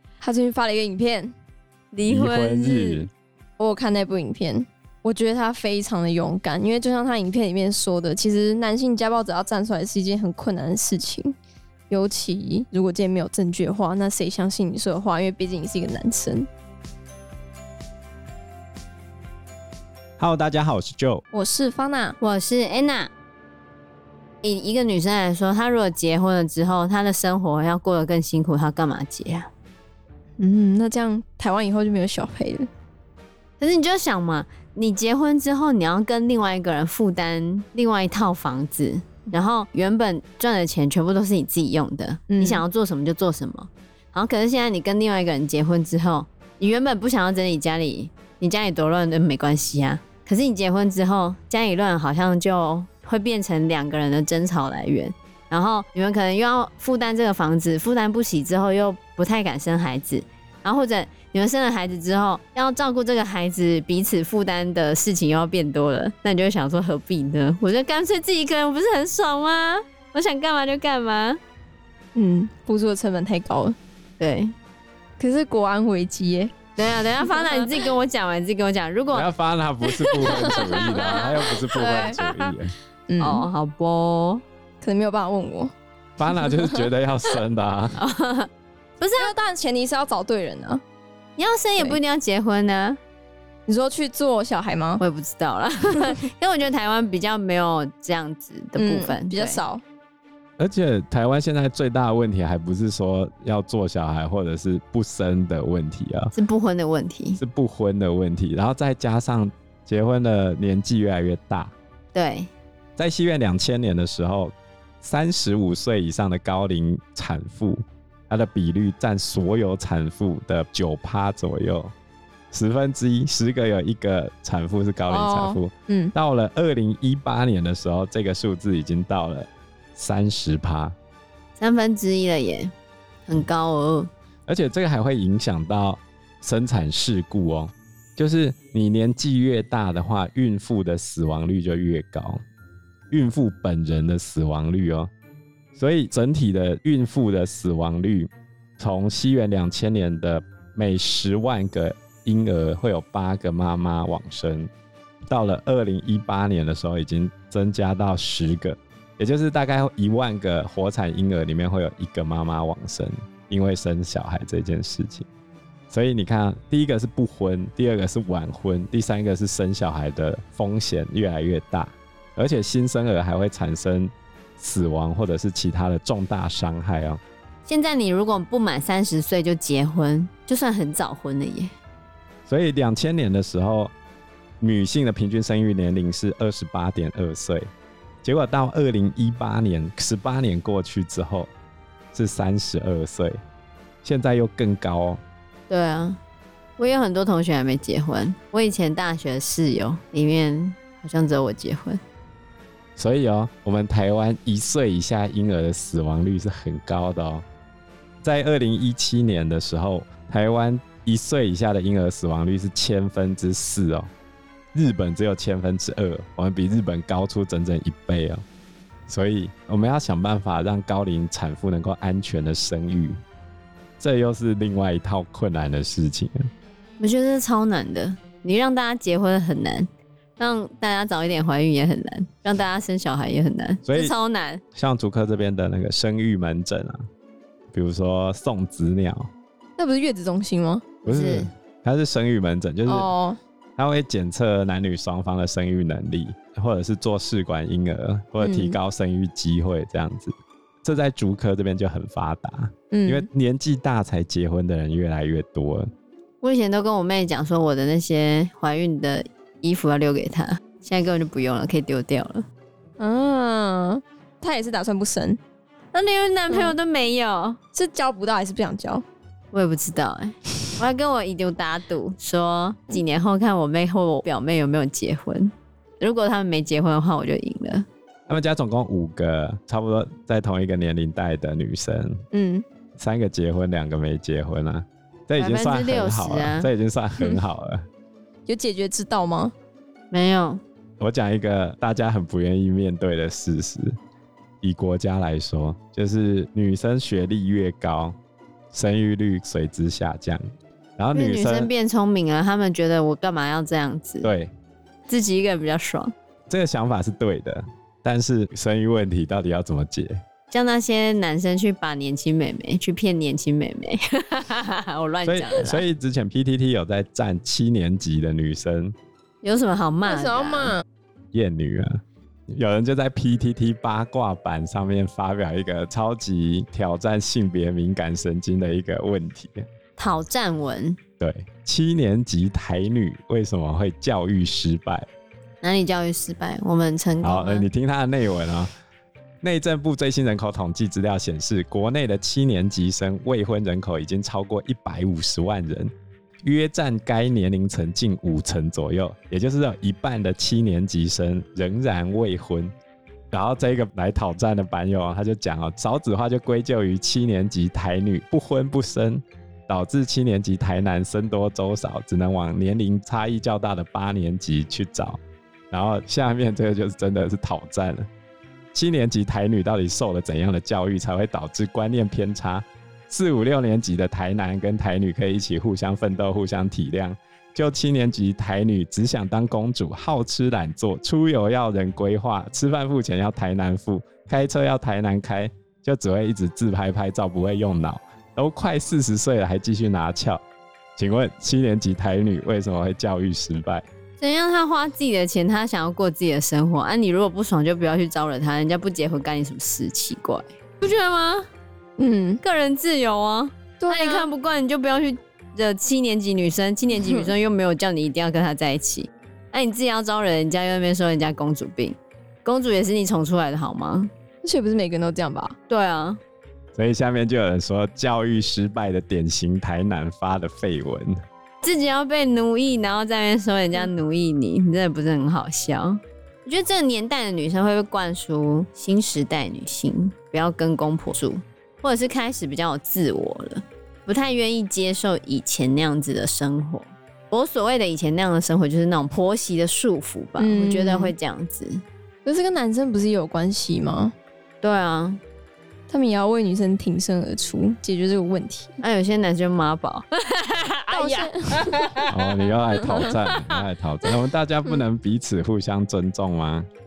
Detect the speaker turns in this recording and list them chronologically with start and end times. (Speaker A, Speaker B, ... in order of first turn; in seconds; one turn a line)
Speaker A: 0.2-1.3
Speaker B: 1.9-3.1
Speaker C: 2.1-3.1
Speaker A: 3.6-11.3
Speaker A: 11.9-16.5
Speaker C: 20.2-21.2
Speaker A: 21.3-22.2
Speaker B: 22.2-23.1
Speaker B: 24.4-29.5
Speaker A: 30.4-32.7
Speaker B: 33.6-71.4
Speaker A: 42.3-42.6
Speaker A: 72.1-73.8
Speaker B: 74.2-74.5
Speaker A: 75.2-76.5
Speaker B: 76.8-79.3
Speaker A: 77.3-77.7
Speaker C: 79.1-82.7
Speaker B: 79.8-82.5
Speaker A: 80.2-82.1
Speaker A: 83.1-83.5
Speaker B: 83.2-84.4
Speaker A: 84.8-85.7
Speaker C: 86.2-88.0
Speaker B: 88.0-89.3
Speaker A: 89.2-90.8
Speaker B: 91.4-93.0
Speaker A: 93.7-95.0
Speaker B: 95.0-99.6
Speaker A: 98.8-99.8
Speaker C: 100.6-106.3
Speaker B: 106.3-107.4
Speaker C: 107.4-111.7
Speaker B: 112.1-112.5
Speaker C: 113.0-121.9
Speaker C: 122.5-130.9
Speaker A: 125.1-126.1
Speaker B: 131.6-132.7
Speaker B: 133.3-134.1
Speaker C: 134.5-142.4
Speaker C: 143.1-145.1
Speaker C: 145.7-154.7
Speaker C: 155.3-165.3
Speaker C: 165.9-177.2
Speaker B: 177.7-181.7
Speaker C: 182.5-183.9
Speaker C: 184.6-187.7
Speaker C: 188.2-191.5
Speaker C: 192.1-193.4
Speaker C: 194.0-195.2
Speaker B: 195.7-196.2
Speaker B: 196.8-202.0
Speaker C: 203.0-207.4
Speaker C: 208.2-214.1
Speaker C: 214.7-218.4
Speaker C: 219.1-223.2
Speaker C: 224.0-226.5
Speaker B: 227.0-234.6
Speaker C: 233.8-234.1
Speaker C: 234.7-237.0
Speaker C: 237.7-239.3
Speaker A: 239.8-240.9
Speaker B: 241.0-241.5
Speaker C: 241.1-243.1
Speaker A: 242.9-243.4
Speaker C: 243.8-255.9
Speaker A: 248.4-248.8
Speaker A: 252.9-253.3
Speaker B: 256.4-262.4
Speaker A: 263.0-265.4
Speaker B: 265.9-267.6
Speaker A: 267.7-269.0
Speaker B: 269.5-277.9
Speaker C: 278.3-282.2
Speaker A: 282.3-282.6
Speaker C: 283.0-287.9
Speaker B: 285.4-286.7
Speaker A: 288.5-289.5
Speaker B: 290.1-290.6
Speaker C: 291.0-294.0
Speaker C: 294.6-298.1
Speaker C: 298.7-300.4
Speaker C: 301.0-301.7
Speaker B: 301.1-304.3
Speaker C: 304.2-304.5
Speaker B: 305.1-306.1
Speaker C: 306.5-310.2
Speaker B: 310.5-315.8
Speaker C: 315.2-318.9
Speaker B: 319.4-320.8
Speaker A: 320.1-320.8
Speaker C: 321.3-329.7
Speaker B: 330.0-331.0
Speaker C: 331.2-335.1
Speaker B: 335.6-337.7
Speaker C: 337.2-338.7
Speaker C: 339.4-352.7
Speaker C: 353.3-368.1
Speaker C: 368.7-390.4
Speaker C: 391.0-393.8
Speaker B: 394.2-401.5
Speaker A: 402.0-402.4
Speaker B: 402.4-414.1
Speaker A: 403.8-404.3
Speaker A: 407.0-407.2
Speaker A: 414.4-415.6
Speaker B: 415.7-416.2
Speaker C: 416.7-421.1
Speaker B: 421.6-441.8
Speaker A: 440.4-441.1
Speaker A: 442.2-444.1
Speaker B: 444.6-445.2
Speaker A: 445.9-448.8
Speaker B: 448.8-452.3
Speaker A: 450.9-451.9
Speaker C: 452.1-456.7
Speaker B: 452.8-453.6